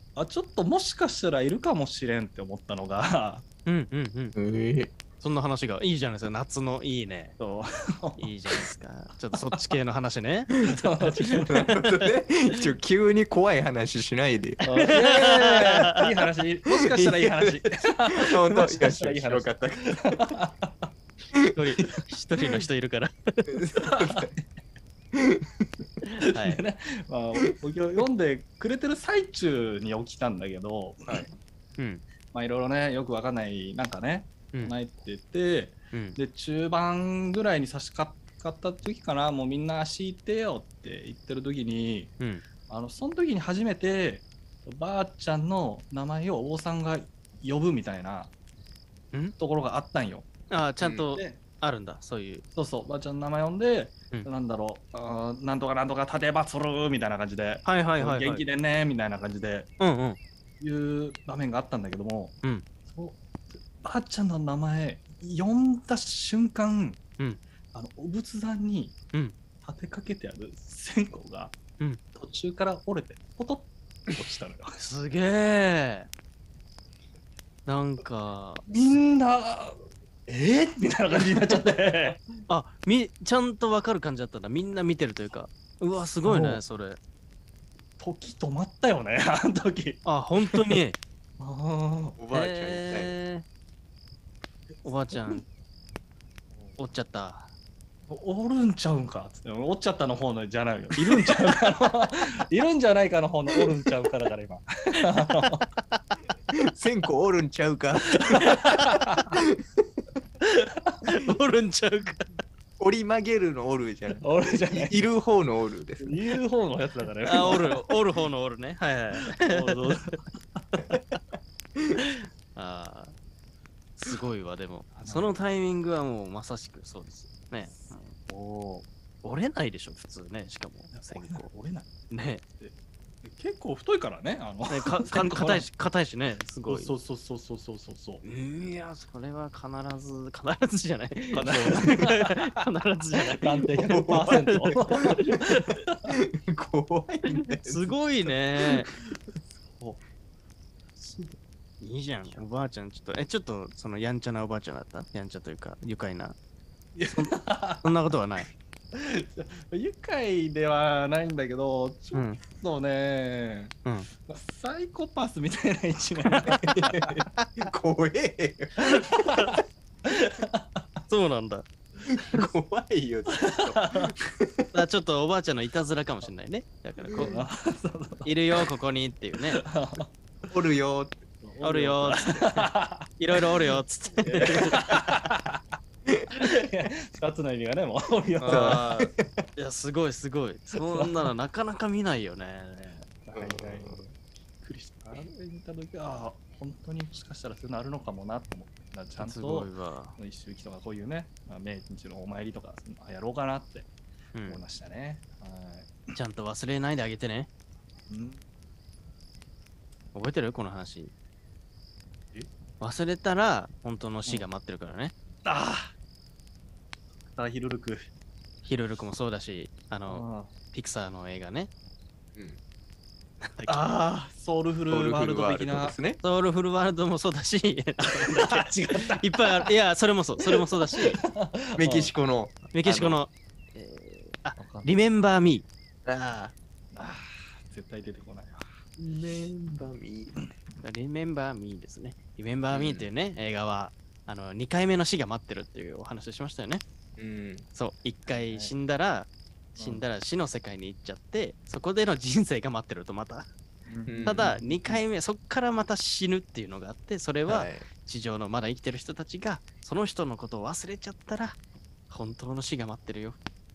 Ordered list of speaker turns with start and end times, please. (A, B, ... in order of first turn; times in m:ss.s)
0:00.2-0:03.4 A
0:03.6-0:04.4 B
0:04.4-0:04.9 C
0:05.2-0:07.4 B
0:07.4-0:08.3 A
0:08.2-0:10.5 B
0:10.5-0:14.6 C
0:10.6-0:11.7 A
0:14.6-0:16.0 B
0:14.6-0:20.9 A
0:16.7-0:20.4 C
0:21.3-0:21.9 C
0:21.5-0:23.5 B
0:23.4-0:24.3 C
0:23.8-0:24.4 A
0:25.1-0:25.8 C
0:26.1-0:26.6 B
0:26.2-0:31.3 A
0:31.8-0:32.0 B
0:32.3-0:42.1 A
0:35.9-0:36.2 B
0:42.2-0:42.4 B
0:42.7-0:48.3 A
0:49.4-0:50.3 A
0:50.5-0:52.4 B
0:50.8-0:51.1 C
0:51.1-0:51.4 A
0:52.5-0:59.7 A
0:57.6-0:58.4 B
0:59.8-1:00.2 B
1:00.6-1:02.4 A
1:02.9-1:03.2 A
1:03.7-1:07.0 A
1:07.7-1:09.0 A
1:09.6-1:11.6 A
1:12.1-1:14.8 A
1:14.8-1:16.1 B
1:17.6-1:18.6 B
1:18.7-1:22.2 A
1:22.5-1:27.0 B
1:26.2-1:26.6 A
1:28.0-1:30.0 A
1:30.0-1:31.0 B
1:31.4-1:32.2 A
1:32.2-1:33.2 C
1:32.3-1:33.4 B
1:34.8-1:35.4 B
1:36.5-1:36.8 A
1:36.8-1:37.5 B
1:38.1-1:45.6 A
1:45.5-1:46.0 B
1:46.5-1:48.8 C
1:48.1-1:49.4 A
1:51.0-1:52.4 B
1:52.8-1:56.2 C
1:54.2-1:55.0 A
1:56.0-1:57.9 A
1:57.2-2:00.2 B
1:59.2-2:00.8 A
2:02.0-2:03.1 B
2:04.0-2:08.2 B
2:04.9-2:05.4 A
2:08.3-2:08.8 A
2:09.2-2:11.5 B
2:10.9-2:12.0 A
2:12.1-2:12.4 B
2:12.6-2:15.7 A
2:14.7-2:16.9 B
2:16.7-2:18.2 A
2:18.2-2:25.1 B
2:21.3-2:22.5 A
2:23.3-2:26.1 A
2:23.8-2:25.4 C
2:26.1-2:27.9 C
2:27.4-2:28.9 B
2:29.6-2:30.0 A
2:31.0-2:31.4 A
2:31.8-2:36.4 B
2:37.0-2:37.8 A
2:37.1-2:38.5 B
2:38.9-2:47.2 A
2:42.1-2:42.4 B
2:46.4-2:49.3 C
2:48.9-2:50.8 A
2:51.1-2:51.6 B
2:52.1-2:54.7 C
2:53.3-2:54.1 A
2:54.7-2:57.4 B
2:57.1-2:58.6 A
2:58.2-2:59.6 B
2:59.6-3:00.1 A
3:00.5-3:01.2 C
3:01.4-3:03.1 A
3:01.6-3:05.0 B
3:04.2-3:05.6 A
3:04.5-3:05.0 C
3:06.3-3:08.9 A
3:08.4-3:13.1 B
3:08.5-3:09.3 C
3:10.8-3:11.3 A
3:13.2-3:14.0 A
3:13.3-3:14.0 C
3:14.6-3:23.9 A
3:19.2-3:20.2 B
3:24.3-3:24.6 B
3:24.4-3:26.1 A
3:26.1-3:27.5 B
3:28.1-3:28.4 A
3:30.1-3:31.1 B
3:32.8-3:35.1 B
3:35.4-3:35.9 A
3:37.3-3:38.1 A
3:38.6-3:41.7 B
3:40.1-3:40.5 A
3:42.3-3:42.6 C
3:43.4-3:43.8 B
3:43.7-3:46.0 A
3:44.9-3:46.2 C
3:46.2-3:51.2 B
3:48.1-3:49.7 A
3:50.4-3:52.1 A
3:51.8-3:53.2 C
3:52.7-3:55.7 B
3:54.6-3:55.0 A
3:56.0-3:56.5 C
3:56.9-3:58.6 A
3:59.0-4:00.4 C
4:00.8-4:06.8 B
4:02.7-4:03.1 C
4:07.2-4:07.7 C
4:07.7-4:13.5 B
4:08.3-4:08.7 A
4:09.8-4:10.0 A
4:13.9-4:14.8 A
4:14.1-4:14.5 C
4:14.2-4:21.6 B
4:17.4-4:17.9 C
4:22.1-4:23.4 B